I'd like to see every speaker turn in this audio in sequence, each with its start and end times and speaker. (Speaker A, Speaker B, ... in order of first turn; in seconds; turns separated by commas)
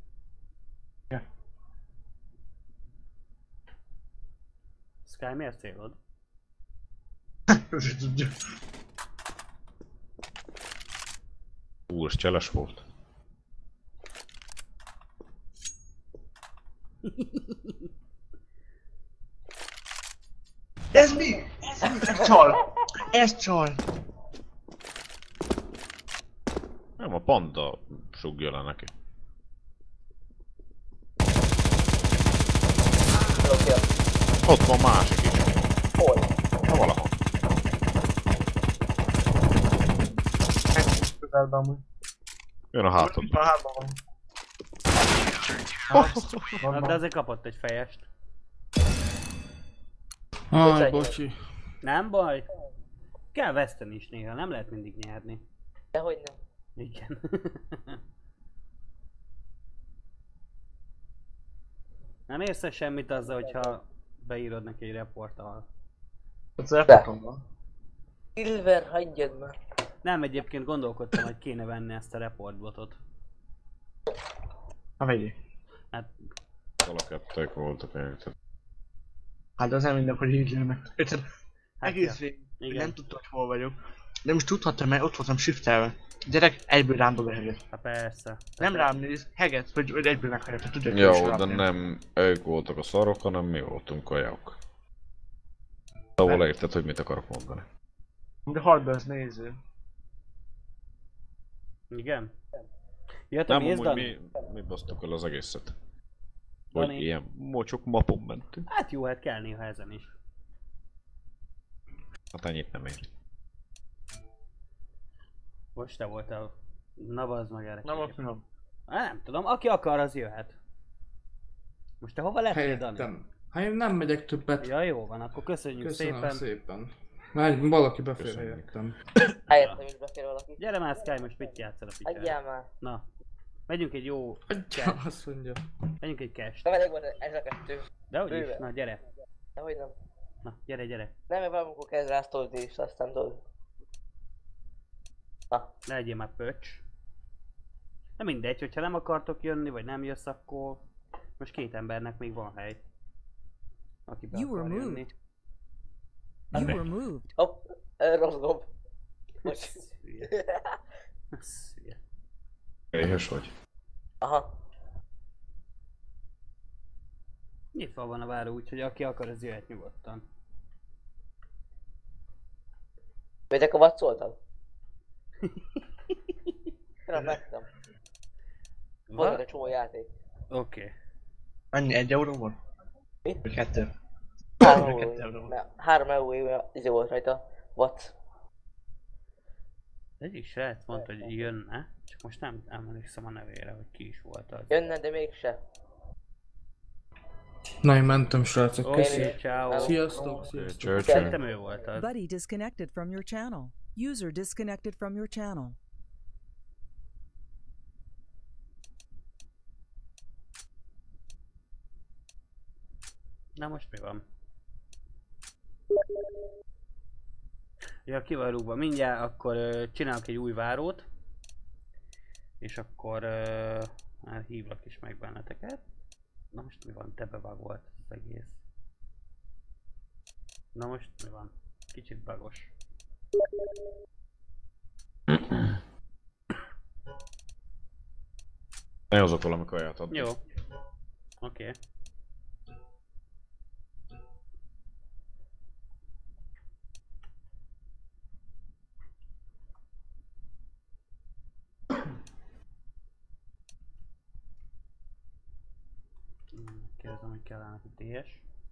Speaker A: 5.1-6.0, Speaker B: 7.5-8.4, Speaker C: 11.9-12.8, Speaker A: 17.1-17.9, Speaker B: 20.9-23.8, Speaker D: 21.9-22.4, Speaker C: 27.0-28.9, Speaker D: 33.4-33.9, Speaker C: 34.5-35.6, Speaker D: 36.0-36.3, Speaker C: 36.6-37.2, Speaker B: 40.8-41.8, Speaker C: 42.7-43.4, Speaker B: 43.0-44.0, Speaker B: 45.9-47.0, Speaker C: 45.9-46.5, Speaker A: 46.7-48.1, Speaker E: 50.5-51.4, Speaker D: 50.6-51.2, Speaker A: 51.8-52.5, Speaker A: 53.3-55.4, Speaker D: 55.9-56.4, Speaker A: 56.8-58.0, Speaker A: 62.3-65.7, Speaker B: 66.6-67.4, Speaker D: 68.4-69.5, Speaker A: 70.0-73.0, Speaker B: 75.0-75.3, Speaker C: 76.8-78.3, Speaker B: 79.6-81.2, Speaker A: 81.8-82.9, Speaker B: 81.8-87.6, Speaker A: 87.7-88.9, Speaker B: 88.6-91.6, Speaker C: 90.9-94.6, Speaker C: 96.2-97.7, Speaker B: 98.5-99.6, Speaker A: 101.9-102.3, Speaker A: 103.3-104.1, Speaker C: 103.5-105.8, Speaker C: 106.7-108.7, Speaker A: 106.8-107.1, Speaker A: 108.7-110.2, Speaker C: 112.3-113.0, Speaker A: 115.8-118.2, Speaker B: 117.8-118.4, Speaker A: 118.9-120.6, Speaker A: 122.0-123.1, Speaker E: 122.5-124.7, Speaker A: 124.6-126.4, Speaker E: 125.8-128.9, Speaker C: 128.2-128.7, Speaker D: 129.5-130.6, Speaker A: 130.6-133.1, Speaker D: 132.1-132.7, Speaker A: 133.7-135.0, Speaker E: 134.5-135.7, Speaker A: 136.0-136.9, Speaker D: 136.7-138.6, Speaker A: 138.1-139.0, Speaker D: 139.6-139.9, Speaker A: 140.4-141.1, Speaker D: 141.3-143.4, Speaker A: 145.9-146.8, Speaker A: 148.2-150.8, Speaker A: 151.4-152.8, Speaker A: 154.1-155.1, Speaker F: 154.3-155.1, Speaker F: 156.5-157.3, Speaker D: 157.4-158.7, Speaker D: 159.4-160.8, Speaker A: 159.5-160.3, Speaker A: 161.3-162.0, Speaker C: 162.9-163.5, Speaker D: 164.2-164.5, Speaker A: 167.7-170.2, Speaker D: 173.5-174.4, Speaker A: 175.4-176.5, Speaker D: 177.1-177.7, Speaker B: 177.1-177.4, Speaker A: 179.1-179.4, Speaker D: 179.1-180.1, Speaker A: 180.5-180.9, Speaker B: 181.7-182.6, Speaker B: 183.4-183.9, Speaker B: 184.6-185.5, Speaker D: 184.6-188.1, Speaker A: 190.2-194.7, Speaker D: 190.9-191.5, Speaker D: 194.7-195.6, Speaker E: 197.8-201.1, Speaker A: 198.8-200.1, Speaker D: 198.9-200.0, Speaker C: 200.5-201.4, Speaker D: 201.1-201.3, Speaker A: 201.1-202.1, Speaker F: 202.0-205.8, Speaker A: 213.6-214.2, Speaker A: 218.1-221.1, Speaker A: 222.6-225.8, Speaker A: 226.5-228.6, Speaker A: 230.8-232.7, Speaker C: 235.3-235.7, Speaker C: 239.1-240.3, Speaker A: 240.1-240.4, Speaker A: 241.4-241.8, Speaker A: 256.5-258.4